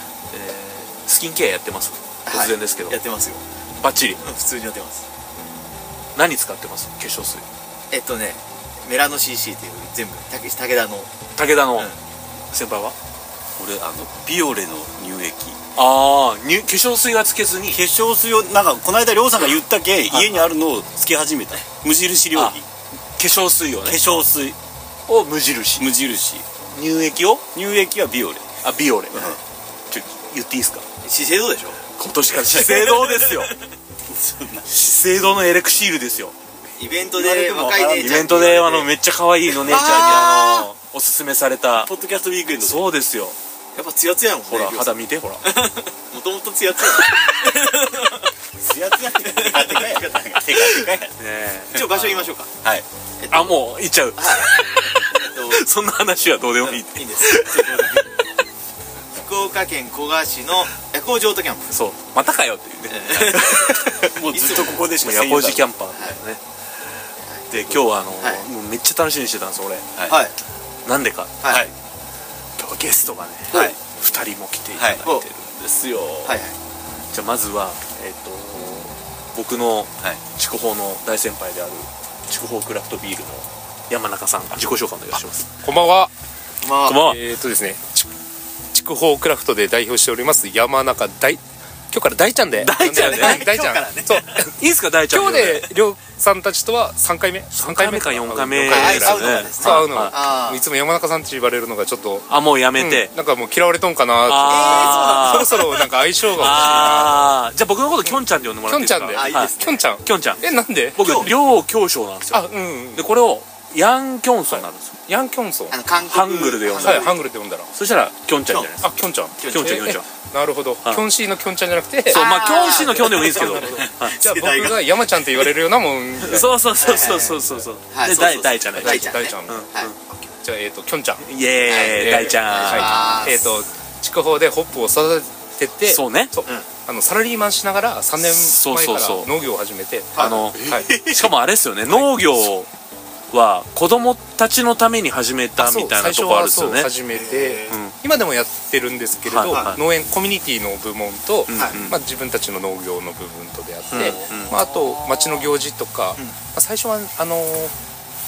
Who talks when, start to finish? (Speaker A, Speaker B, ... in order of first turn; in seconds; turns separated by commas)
Speaker A: 0.3-3.0, Speaker B: 2.3-3.4, Speaker A: 3.8-4.2, Speaker B: 4.2-5.0, Speaker A: 6.1-7.4, Speaker B: 7.9-11.1, Speaker A: 11.3-11.9, Speaker A: 12.5-12.9, Speaker C: 13.6-15.6, Speaker A: 15.8-17.8, Speaker C: 17.7-22.6, Speaker A: 20.1-20.4, Speaker A: 23.2-24.0, Speaker C: 23.8-24.6, Speaker A: 25.1-25.9, Speaker C: 25.8-26.4, Speaker A: 26.7-27.5, Speaker C: 27.5-28.4, Speaker A: 28.6-29.4, Speaker C: 29.1-29.4, Speaker A: 29.9-30.8, Speaker B: 31.0-31.8, Speaker A: 32.0-33.5, Speaker C: 32.3-33.0, Speaker B: 32.6-33.5, Speaker C: 34.1-34.7, Speaker A: 34.7-36.3, Speaker B: 36.8-38.9, Speaker C: 37.1-38.6, Speaker A: 37.9-41.9, Speaker C: 39.6-40.4, Speaker B: 39.6-40.7, Speaker C: 41.8-42.8, Speaker A: 42.6-43.4, Speaker B: 43.7-44.9, Speaker A: 44.5-45.4, Speaker B: 45.4-48.2, Speaker C: 48.6-51.1, Speaker B: 49.2-50.6, Speaker A: 51.2-52.3, Speaker B: 51.7-52.5, Speaker C: 52.5-52.8, Speaker B: 53.2-53.6, Speaker A: 53.3-58.0, Speaker B: 54.1-54.5, Speaker B: 55.2-55.6, Speaker B: 56.6-57.4, Speaker C: 57.5-58.0, Speaker B: 59.1-61.7, Speaker A: 61.7-64.1, Speaker B: 62.9-64.9, Speaker C: 64.1-65.7, Speaker A: 65.0-66.4, Speaker A: 67.5-69.9, Speaker B: 70.1-70.3, Speaker A: 70.8-71.6, Speaker A: 72.6-76.4, Speaker C: 73.5-73.8, Speaker B: 74.8-75.2, Speaker B: 76.2-76.5, Speaker A: 77.1-85.5, Speaker D: 85.6-86.1, Speaker B: 86.6-87.0, Speaker A: 86.8-87.2, Speaker D: 87.0-88.1, Speaker D: 88.7-94.5, Speaker A: 92.5-93.5, Speaker B: 92.8-94.5, Speaker A: 94.5-95.7, Speaker D: 95.1-107.3, Speaker A: 97.5-100.2, Speaker B: 98.7-100.6, Speaker A: 102.3-103.1, Speaker A: 104.3-105.7, Speaker B: 104.5-105.8, Speaker A: 106.3-110.4, Speaker B: 106.4-107.1, Speaker D: 108.0-111.3, Speaker B: 109.1-109.8, Speaker A: 110.9-115.0, Speaker B: 111.0-111.3, Speaker D: 112.3-113.1, Speaker D: 114.5-115.8, Speaker B: 115.7-117.2, Speaker A: 116.1-117.2, Speaker D: 116.8-117.7, Speaker A: 117.7-118.9, Speaker D: 118.8-122.3, Speaker B: 119.4-120.0, Speaker A: 119.5-120.1, Speaker A: 122.1-124.2, Speaker B: 122.1-124.9, Speaker D: 123.3-126.6, Speaker A: 126.2-129.9, Speaker B: 126.3-129.9, Speaker D: 127.3-127.7, Speaker D: 128.7-131.3, Speaker A: 131.2-133.3, Speaker B: 131.6-133.6, Speaker D: 131.8-141.2, Speaker A: 135.9-136.3, Speaker A: 138.2-139.3, Speaker B: 140.1-140.5, Speaker A: 140.2-142.7, Speaker C: 140.5-141.3, Speaker A: 143.3-146.9, Speaker D: 145.6-157.7, Speaker B: 147.1-147.8, Speaker A: 147.7-147.9, Speaker A: 149.2-149.8, Speaker B: 149.5-149.8, Speaker A: 151.5-151.9, Speaker B: 151.5-151.8, Speaker B: 153.9-155.4, Speaker A: 153.9-154.5